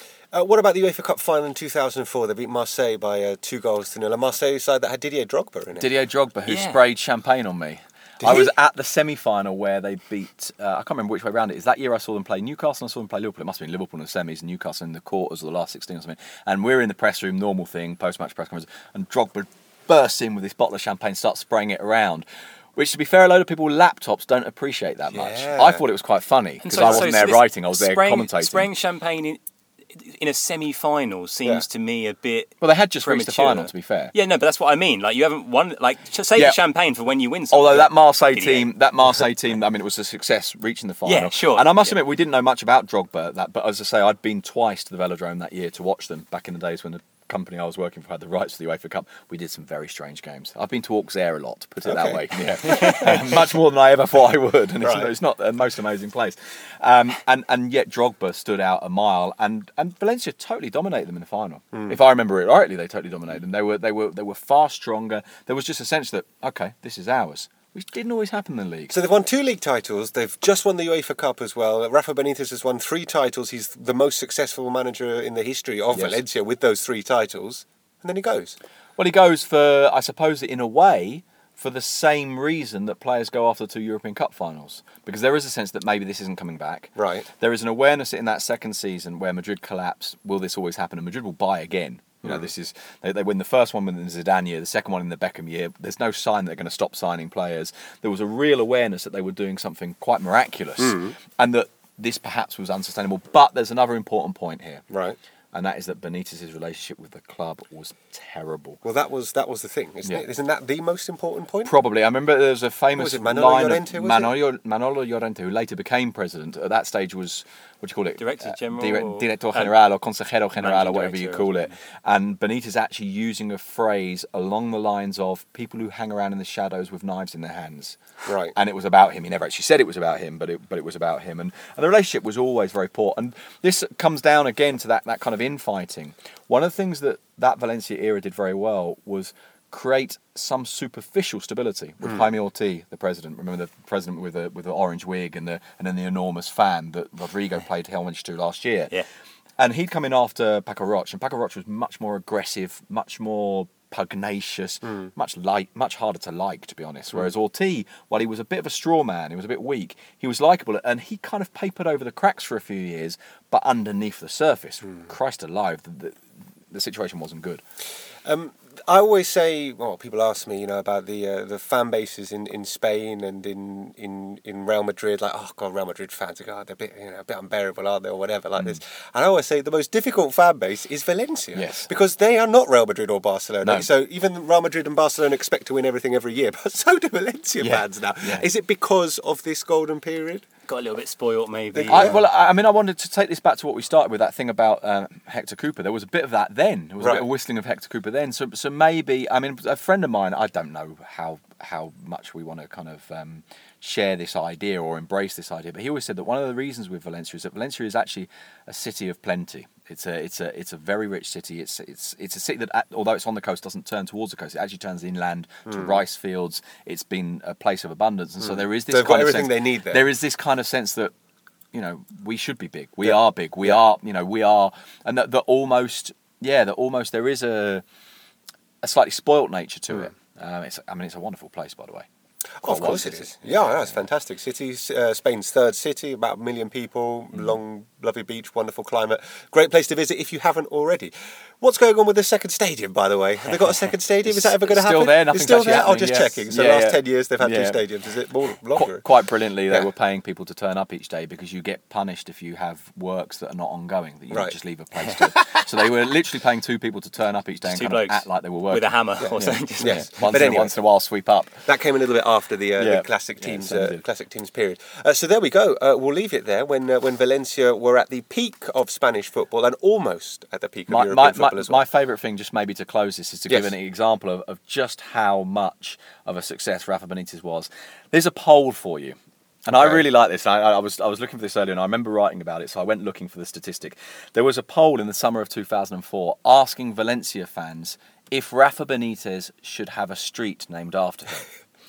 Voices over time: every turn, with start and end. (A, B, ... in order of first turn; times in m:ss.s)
0:00.3-0:05.9 A
0:05.8-0:28.7 B
0:06.5-0:06.8 C
0:08.2-0:08.5 A
0:25.1-0:25.8 A
0:26.6-0:29.4 C
0:26.7-0:27.0 A
0:29.9-0:38.7 C
0:32.6-0:34.1 B
0:37.5-1:08.9 B
0:41.0-0:42.0 C
0:51.8-0:53.2 A
0:54.8-0:55.1 A
1:01.7-1:02.0 A
1:08.9-1:18.6 A
1:15.9-1:16.2 B
1:19.0-1:44.9 B
1:27.0-1:27.2 A
1:32.2-1:32.5 A
1:40.8-1:41.2 A
1:44.9-1:45.2 A
1:45.5-1:48.8 B
1:48.8-1:51.7 A
1:51.6-2:08.0 B
1:53.0-1:54.3 A
1:58.2-1:59.7 C
2:00.5-2:01.5 C
2:08.2-2:08.5 A
2:08.5-2:28.9 B
2:29.6-2:47.6 B
2:34.8-2:35.1 A
2:48.2-3:10.4 A
3:01.5-3:01.9 B
3:03.6-3:03.9 B
3:07.6-3:08.4 B
3:10.7-3:12.2 C
3:11.7-3:12.2 A
3:11.9-3:41.1 B
3:17.0-3:17.2 A
3:35.6-3:36.0 A
3:38.4-3:40.1 A
3:41.7-3:47.8 B
3:43.0-3:43.8 A
3:48.8-3:52.1 B
3:52.6-4:09.1 A
3:52.6-3:54.0 B
4:04.2-4:07.8 B
4:08.7-4:21.6 B
4:14.3-4:14.6 A
4:17.7-4:20.3 C
4:19.2-4:20.7 A
4:21.6-4:31.8 A
4:22.8-4:24.0 B
4:30.9-4:51.5 B
4:39.7-4:40.0 A